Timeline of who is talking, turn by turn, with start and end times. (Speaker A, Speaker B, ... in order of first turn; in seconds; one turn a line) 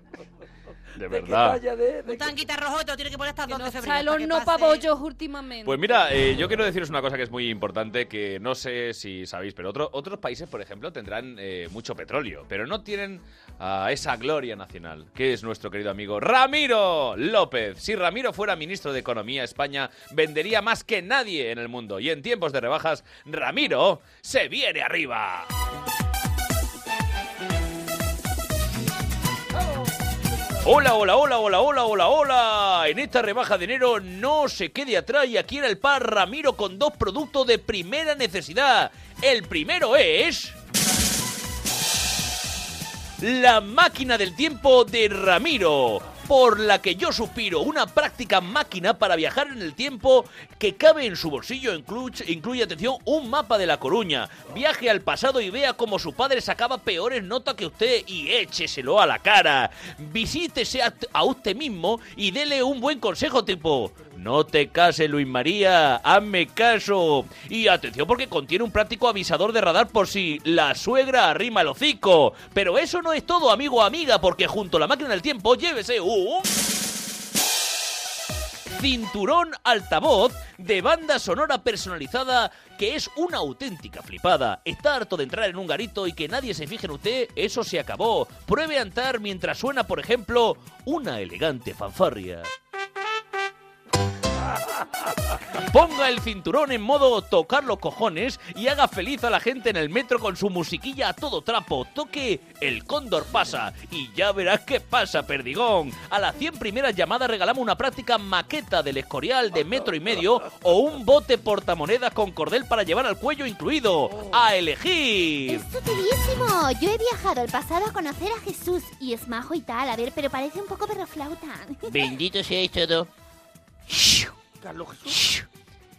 Speaker A: 1.0-1.6
Speaker B: 1.1-2.4
Speaker C: 2.0-4.9
Speaker D: 3.5-5.8
Speaker A: 5.7-25.5
Speaker A: 30.6-40.6
Speaker A: 43.2-76.5
Speaker A: 78.7-92.5
Speaker A: 95.6-115.7
Speaker E: 115.5-122.1
Speaker F: 121.9-123.1
Speaker F: 123.9-124.3
Speaker B: 124.6-125.3
Speaker F: 125.1-125.4